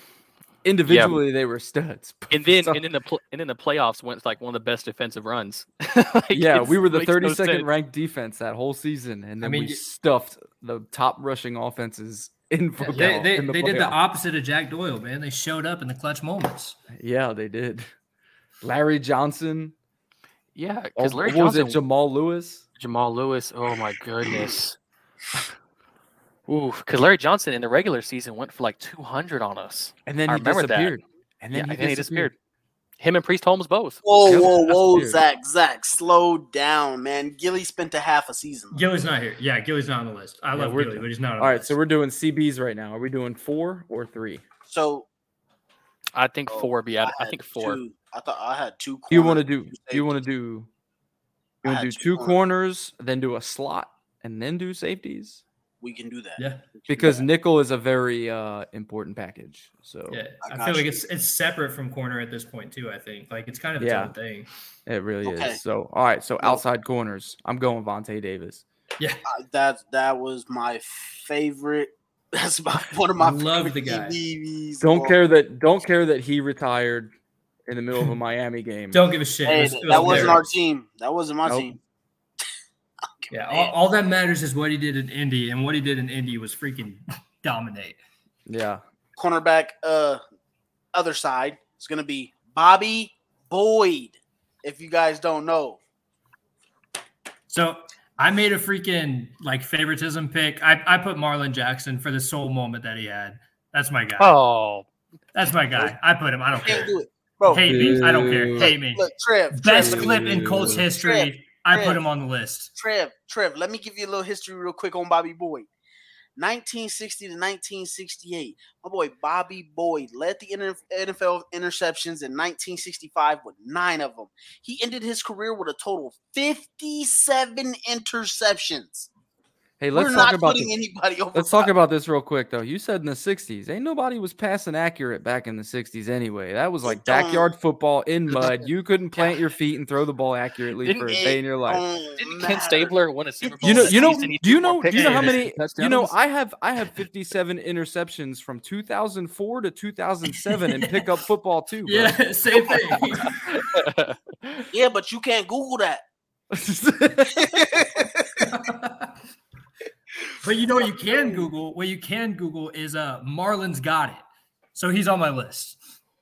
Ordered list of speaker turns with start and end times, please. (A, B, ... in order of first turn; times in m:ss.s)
0:00.6-0:02.8 A
0:00.9-0:01.2 B
0:02.3-0:07.7 B
0:06.3-0:14.0 A
0:09.4-0:09.8 C
0:12.9-0:16.8 C
0:16.9-0:17.9 A
0:18.6-0:19.7 A
0:20.5-0:21.8 B
0:21.0-0:22.6 A
0:22.8-0:24.8 B
0:26.5-0:31.0 B
0:30.0-0:32.3 A
0:31.5-0:32.3 B
0:33.0-0:34.0 B
0:34.0-0:38.8 D
0:34.2-0:35.2 A
0:38.7-0:41.8 C
0:40.5-0:44.4 A
0:44.6-0:45.1 D
0:46.1-0:47.8 B
0:46.5-0:50.1 D
0:49.1-0:50.7 A
0:51.6-0:52.4 D
0:51.6-0:55.4 A
0:55.8-0:57.3 D
0:56.4-0:56.6 C
0:56.9-1:00.2 A
1:00.1-1:04.5 C
1:00.4-1:01.0 D
1:03.8-1:04.1 A
1:04.8-1:08.6 A
1:05.2-1:05.6 D
1:09.3-1:15.2 D
1:13.2-1:14.2 C
1:14.8-1:17.1 A
1:17.7-1:19.0 A
1:18.9-1:20.4 C
1:19.4-1:21.8 D
1:19.9-1:20.4 A
1:23.2-1:23.7 D
1:23.3-1:28.0 C
1:28.5-1:28.8 A
1:29.2-1:30.2 D
1:30.9-1:35.8 D
1:37.5-1:44.4 C
1:44.2-1:44.8 B
1:45.3-1:46.9 C
1:46.6-1:52.0 D
1:47.5-1:52.7 C
1:47.5-1:48.7 A
1:49.7-1:50.8 A
1:52.7-1:55.7 D
1:56.4-2:09.1 D
2:09.8-2:10.7 A
2:09.9-2:11.7 D
2:11.3-2:21.8 A
2:16.8-2:17.5 D
2:19.2-2:19.4 B
2:20.8-2:21.2 B
2:21.1-2:24.3 D
2:22.2-2:26.2 B
2:23.6-2:32.2 A
2:24.9-2:25.4 C
2:30.5-2:31.0 C
2:31.8-2:33.5 C
2:33.4-2:34.2 B
2:34.7-2:36.0 D
2:36.5-2:37.9 A
2:37.3-2:38.4 D
2:38.4-2:39.2 C
2:40.4-2:44.2 C
2:41.0-2:41.5 D
2:44.7-2:45.8 C